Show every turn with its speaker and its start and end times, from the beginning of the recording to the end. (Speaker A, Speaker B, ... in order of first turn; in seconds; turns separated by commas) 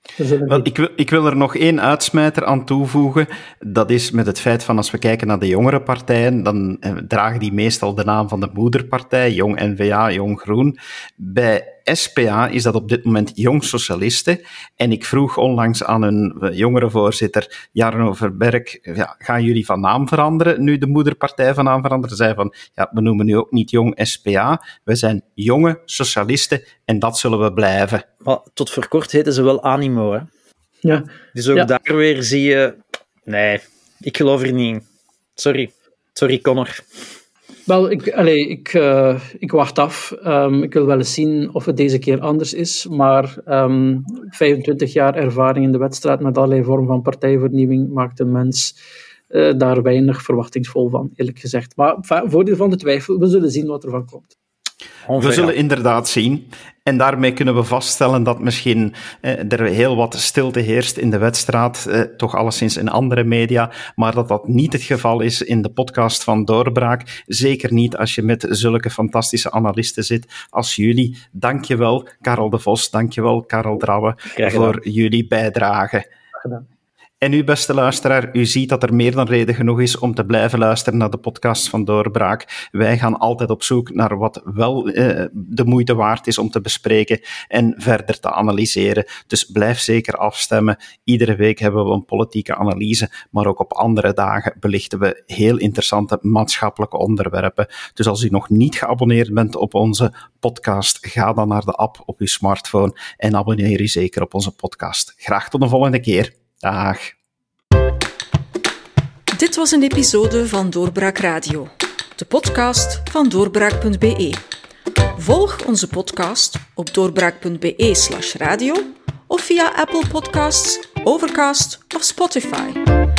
Speaker A: 0.2-0.7, Speaker B: 0.5-28.0, Speaker C: 28.2-30.3, Speaker A: 30.8-31.7, Speaker C: 31.3-34.8, Speaker C: 35.4-36.8, Speaker A: 37.7-48.8, Speaker A: 49.3-54.3, Speaker C: 55.0-55.5, Speaker B: 55.2-76.1, Speaker C: 74.3-74.8, Speaker B: 77.2-107.1, Speaker D: 109.3-114.4, Speaker D: 115.2-122.8